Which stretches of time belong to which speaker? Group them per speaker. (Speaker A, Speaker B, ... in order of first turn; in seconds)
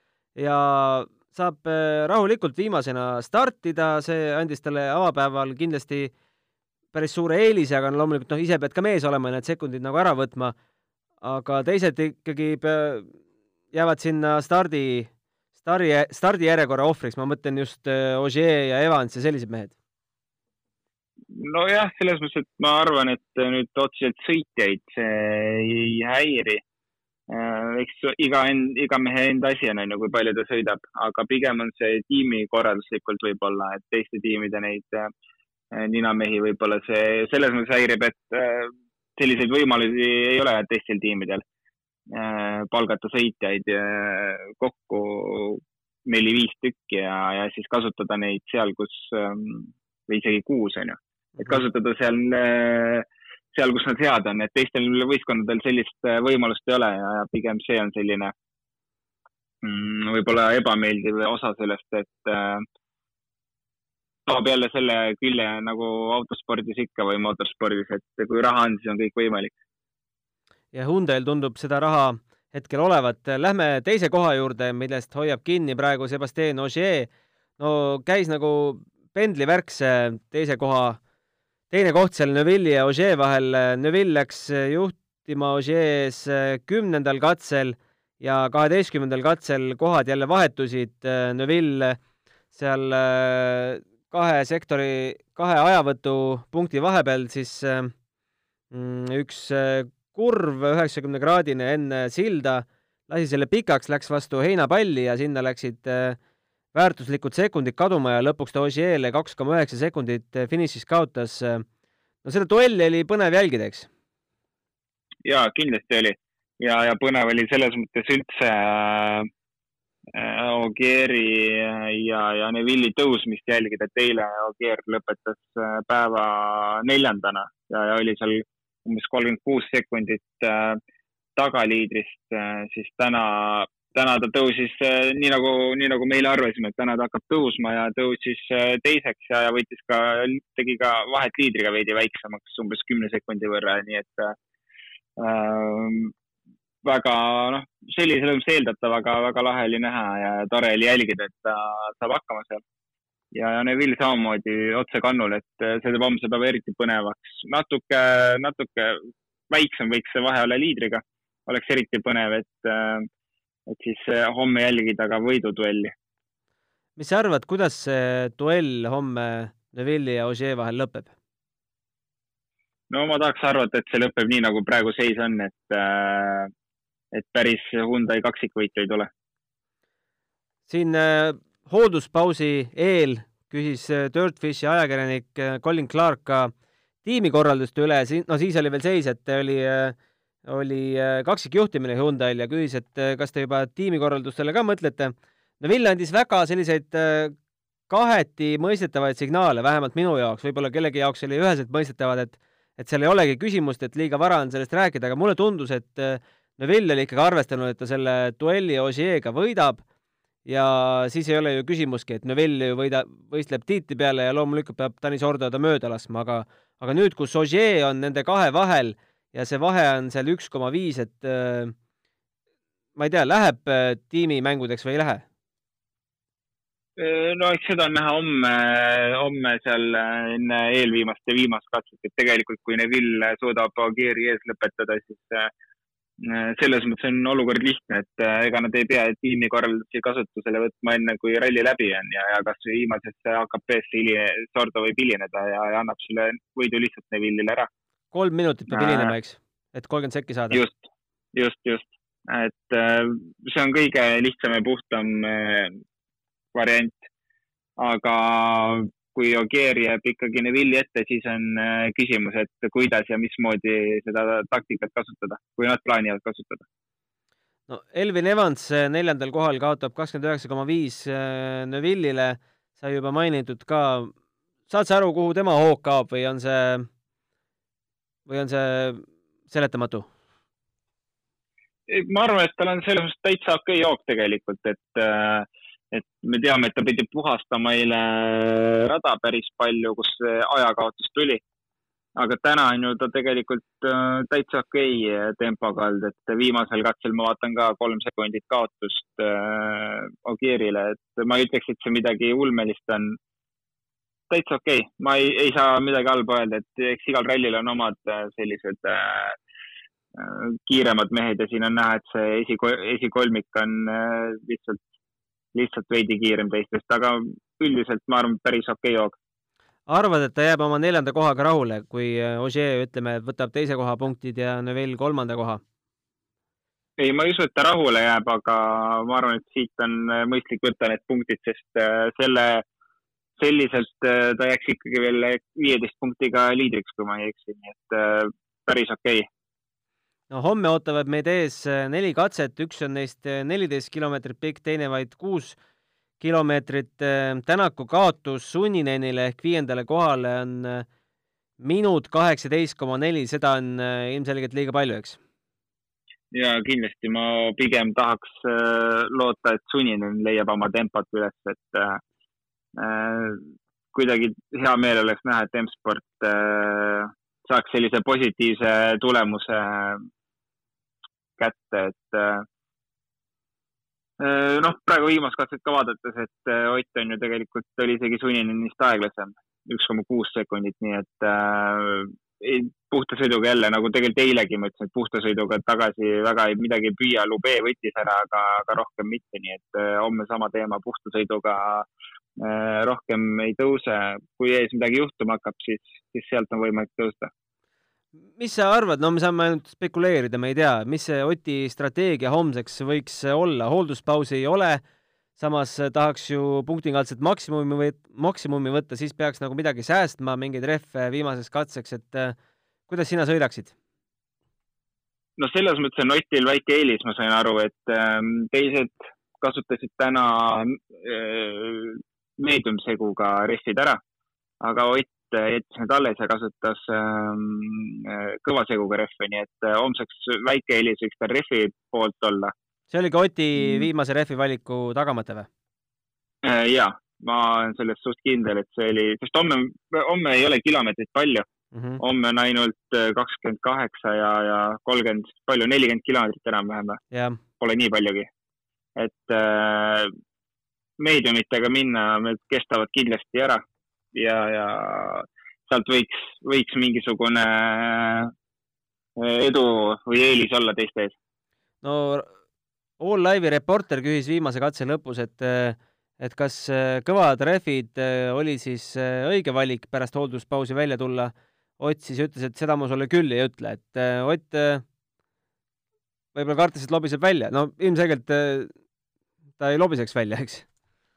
Speaker A: 0.4-6.1, 6.9-10.6, 11.2-13.1, 13.7-19.7, 70.7-81.0, 81.7-92.0, 92.5-97.9, 98.7-106.2, 106.7-111.7, 112.2-113.9, 167.0-171.1, 180.7-186.5, 187.0-197.4, 197.9-209.8, 210.5-221.8, 223.0-225.2, 248.1-250.6, 267.7-274.1, 274.7-276.9, 278.3-280.1, 319.9-325.6, 340.3-345.6, 346.2-350.9, 351.6-355.2, 398.4-404.8, 405.4-412.4, 412.9-413.8, 432.9-435.5, 441.7-442.0, 447.1-447.4, 461.8-462.3, 463.0-474.8, 476.3-478.7, 479.6-480.7
Speaker B: 21.3-26.6, 27.3-35.1, 35.7-41.4, 42.1-58.3, 59.6-62.7, 64.3-69.5, 115.2-119.3, 120.1-130.8, 131.4-144.4, 145.2-146.1, 146.8-152.6, 153.3-163.1, 163.7-165.9, 172.9-176.5, 177.1-179.1, 227.0-235.5, 236.2-247.7, 248.7-249.1, 250.5-255.8, 256.5-257.1, 257.8-266.6, 281.9-291.4, 292.2-303.2, 304.3-309.4, 310.1-314.9, 315.5-319.2, 327.0-332.6, 333.4-339.3, 356.3-362.0, 362.8-370.1, 371.4-372.5, 374.2-391.9, 392.4-397.3, 415.4-424.0, 424.6-432.5, 433.6-433.9, 436.4-441.5, 442.0-447.0, 447.6-448.3, 449.0-450.1, 451.0-458.3, 459.2-461.1